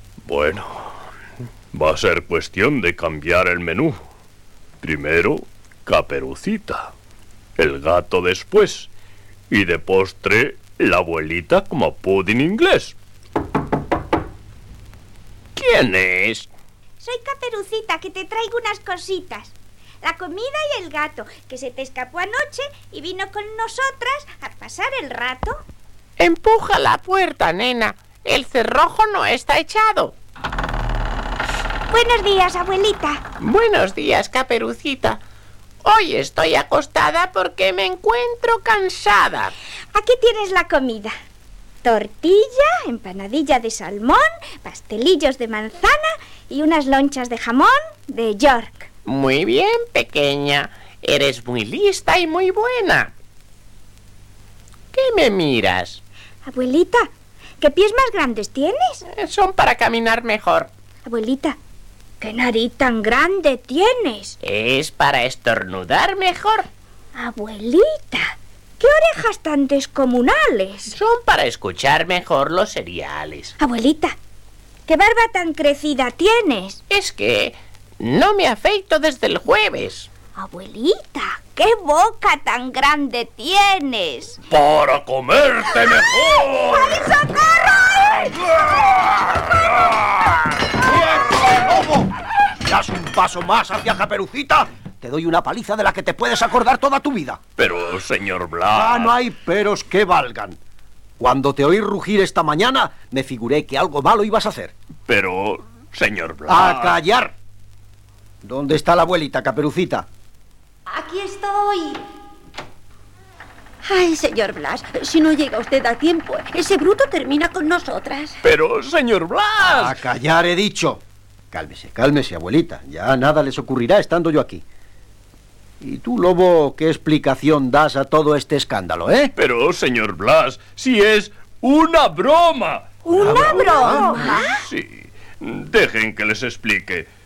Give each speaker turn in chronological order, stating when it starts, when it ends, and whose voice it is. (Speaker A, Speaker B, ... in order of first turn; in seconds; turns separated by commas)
Speaker A: 0.2-0.9, Speaker A: 1.7-4.0, Speaker A: 4.8-6.9, Speaker A: 7.6-8.9, Speaker A: 9.5-12.9, Speaker A: 15.6-16.5, Speaker B: 17.0-25.6, Speaker C: 26.2-30.1, Speaker B: 31.9-33.2, Speaker C: 33.4-35.2, Speaker C: 35.8-39.5, Speaker B: 39.9-41.1, Speaker B: 41.8-48.9, Speaker C: 49.0-53.1, Speaker C: 54.9-56.0, Speaker B: 56.5-57.1, Speaker B: 57.6-59.0, Speaker C: 59.1-60.7, Speaker B: 61.0-61.6, Speaker B: 62.2-64.4, Speaker C: 64.4-66.7, Speaker B: 67.1-71.0, Speaker C: 70.9-73.5, Speaker B: 73.6-74.1, Speaker B: 74.9-76.8, Speaker C: 76.9-80.1, Speaker B: 80.4-84.4, Speaker A: 84.5-87.2, Speaker B: 86.6-88.3, Speaker A: 88.0-89.4, Speaker D: 90.8-92.1, Speaker D: 92.6-97.4, Speaker A: 97.6-99.2, Speaker D: 98.7-100.6, Speaker D: 101.2-104.7, Speaker A: 105.1-107.0, Speaker D: 106.5-107.3, Speaker D: 108.4-110.1, Speaker E: 110.9-112.0, Speaker E: 113.8-118.3, Speaker A: 118.4-120.0, Speaker D: 119.6-121.0, Speaker D: 121.5-124.6, Speaker D: 125.8-129.3, Speaker A: 129.3-137.1, Speaker B: 133.0-134.6, Speaker D: 133.2-134.2